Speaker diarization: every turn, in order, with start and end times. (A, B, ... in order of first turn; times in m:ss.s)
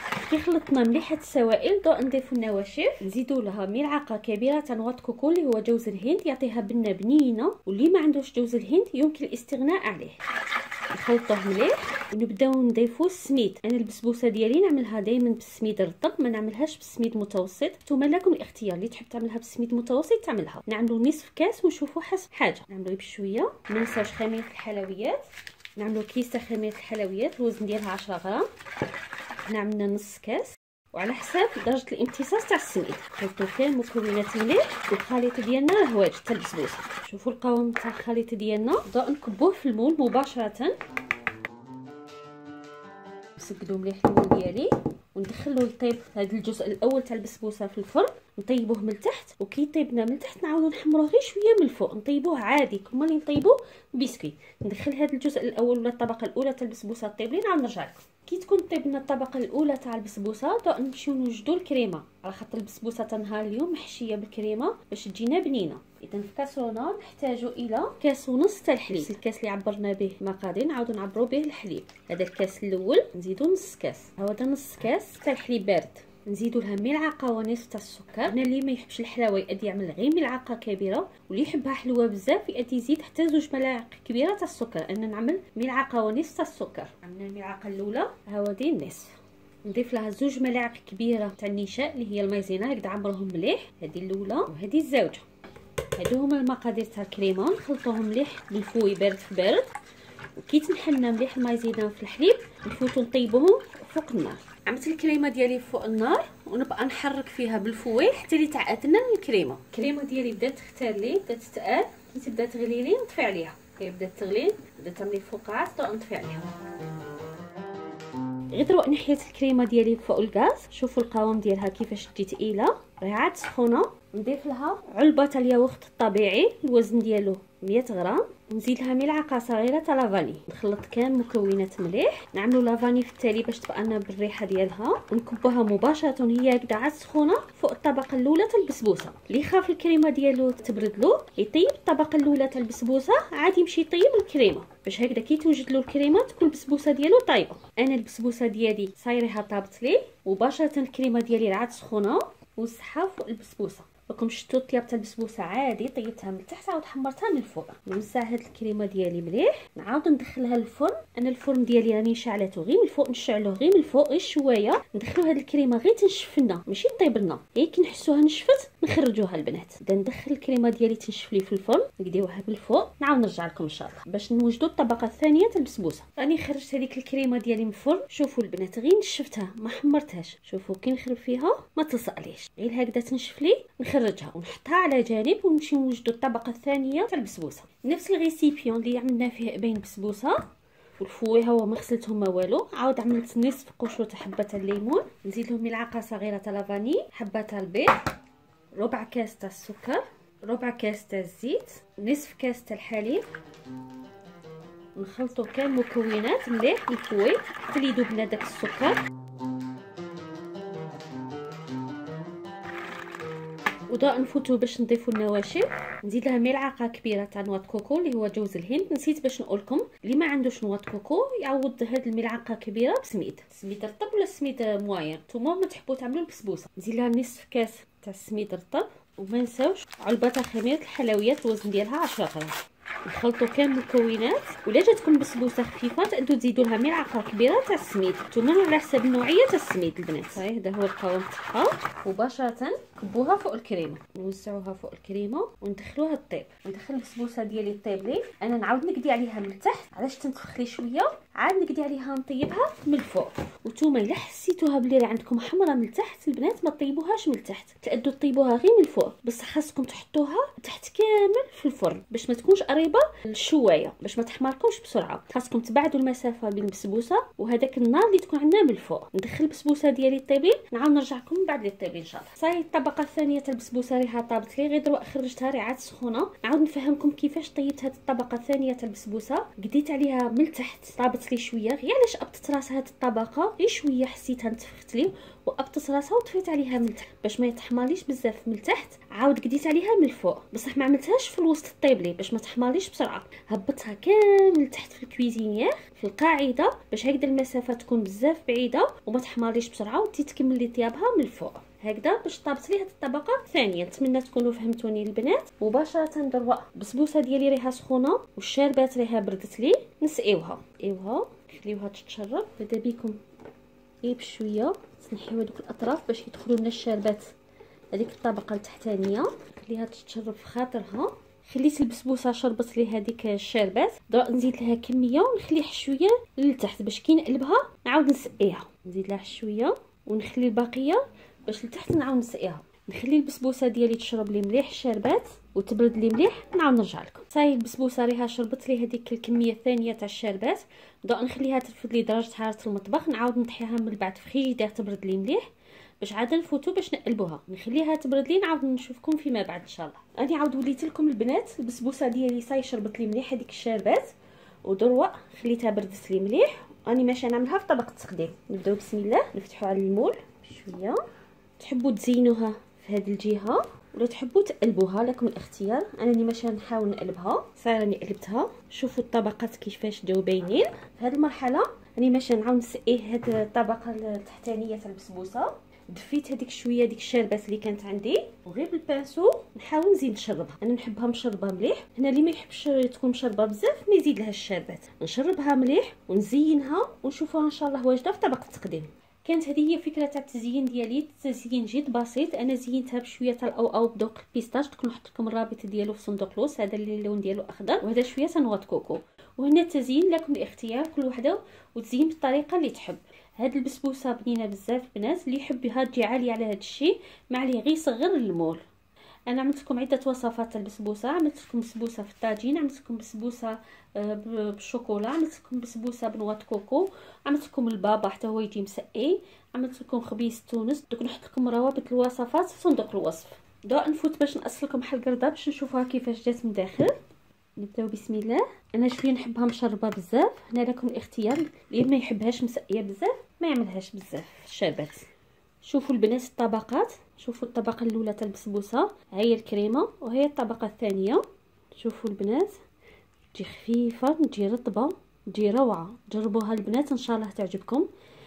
0:00.3-0:10.2 A
0:10.9-0:25.2 A
0:25.8-0:28.5 A
0:29.4-0:40.8 A
0:43.4-1:35.2 A
1:36.0-1:39.7 A
1:40.4-1:56.5 A
1:58.5-3:10.4 A
3:11.0-3:18.0 A
3:18.8-3:23.2 A
3:25.0-3:29.0 A
3:33.9-5:13.2 A
5:14.0-5:17.3 A
5:17.9-5:45.4 A
5:46.0-5:54.1 A
5:54.6-6:01.0 A
6:01.6-6:48.6 A
6:49.3-7:06.9 A
7:07.6-7:15.1 A
7:15.6-7:21.2 A
7:21.8-7:22.6 A
7:23.3-7:27.9 A